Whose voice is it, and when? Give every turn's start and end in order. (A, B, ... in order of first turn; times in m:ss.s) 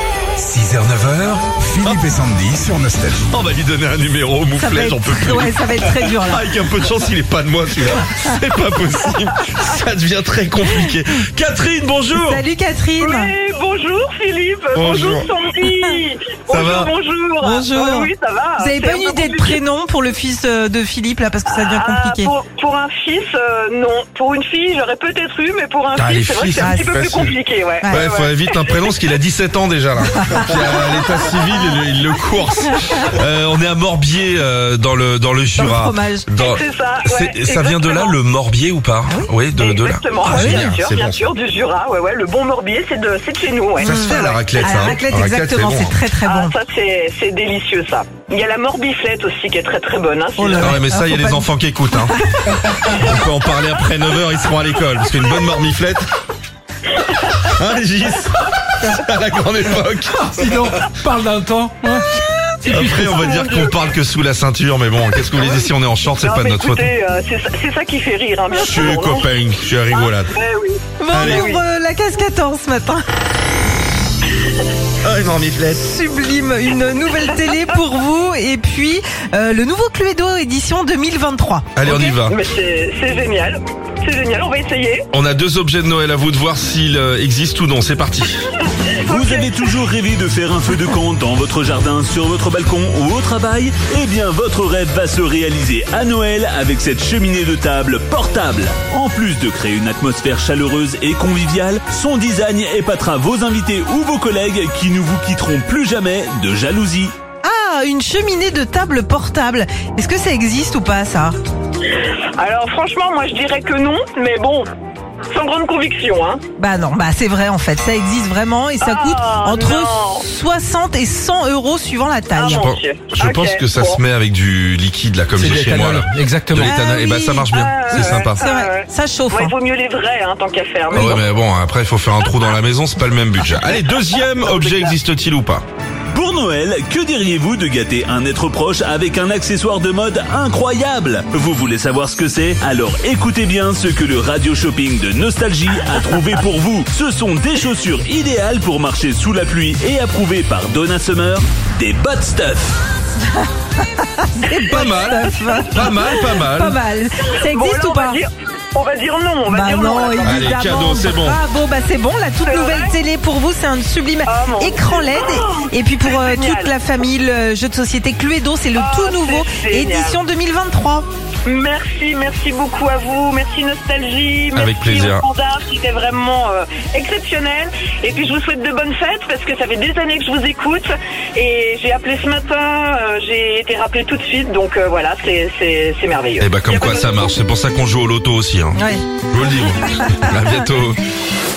0:00.4-0:03.3 A
0:03.3-0:12.4 B
0:04.6-0:06.6 C
0:12.1-0:13.3 C
0:13.0-0:19.6 D
0:14.8-0:15.3 B
0:15.7-0:16.0 C
0:16.5-0:16.9 B
0:17.4-0:22.3 C
0:21.5-0:28.9 D
0:26.0-0:41.3 B
0:30.7-0:31.0 D
0:35.6-0:36.3 C
0:36.4-0:38.2 D
0:39.1-0:39.4 C
0:39.6-0:44.6 D
0:40.2-0:40.7 C
0:43.8-0:46.0 B
0:43.8-0:46.5 C
0:46.2-0:50.8 D
0:50.4-0:52.5 C
0:50.6-0:52.2 B
0:52.9-0:56.1 B
0:57.3-1:00.7 B
1:00.4-1:01.0 C
1:00.4-1:01.9 E
1:01.8-1:02.8 C
1:02.6-1:06.9 B
1:03.0-1:03.8 D
1:05.4-1:05.7 D
1:06.2-1:09.3 D
1:08.6-1:10.3 B
1:09.9-1:11.6 D
1:11.0-1:13.0 C
1:11.1-1:11.5 B
1:15.0-1:15.8 B
1:15.7-1:21.8 C
1:21.8-1:22.4 B
1:21.8-1:25.1 D
1:25.1-1:28.5 B
1:28.6-1:29.7 D
1:29.1-1:47.1 F
1:47.4-1:51.4 C
1:51.9-1:54.7 D
1:55.3-1:56.4 D
1:56.6-2:02.6 C
1:58.8-2:00.3 D
2:02.3-2:04.0 D
2:02.5-2:08.5 B
2:05.4-2:06.7 E
2:06.6-2:09.5 C
2:07.5-2:11.3 D
2:10.9-2:15.6 B
2:14.2-2:14.9 D
2:16.1-2:32.8 F
2:33.3-2:38.2 C
2:34.6-2:35.9 D
2:34.6-2:36.8 B
2:37.2-2:40.7 D
2:39.5-2:51.1 C
2:40.2-2:41.4 B
2:42.4-2:43.0 D
2:44.3-2:46.9 D
2:48.7-2:50.2 D
2:51.5-3:07.3 D
2:54.6-2:55.3 B
3:06.4-3:11.0 B
3:08.8-3:10.4 C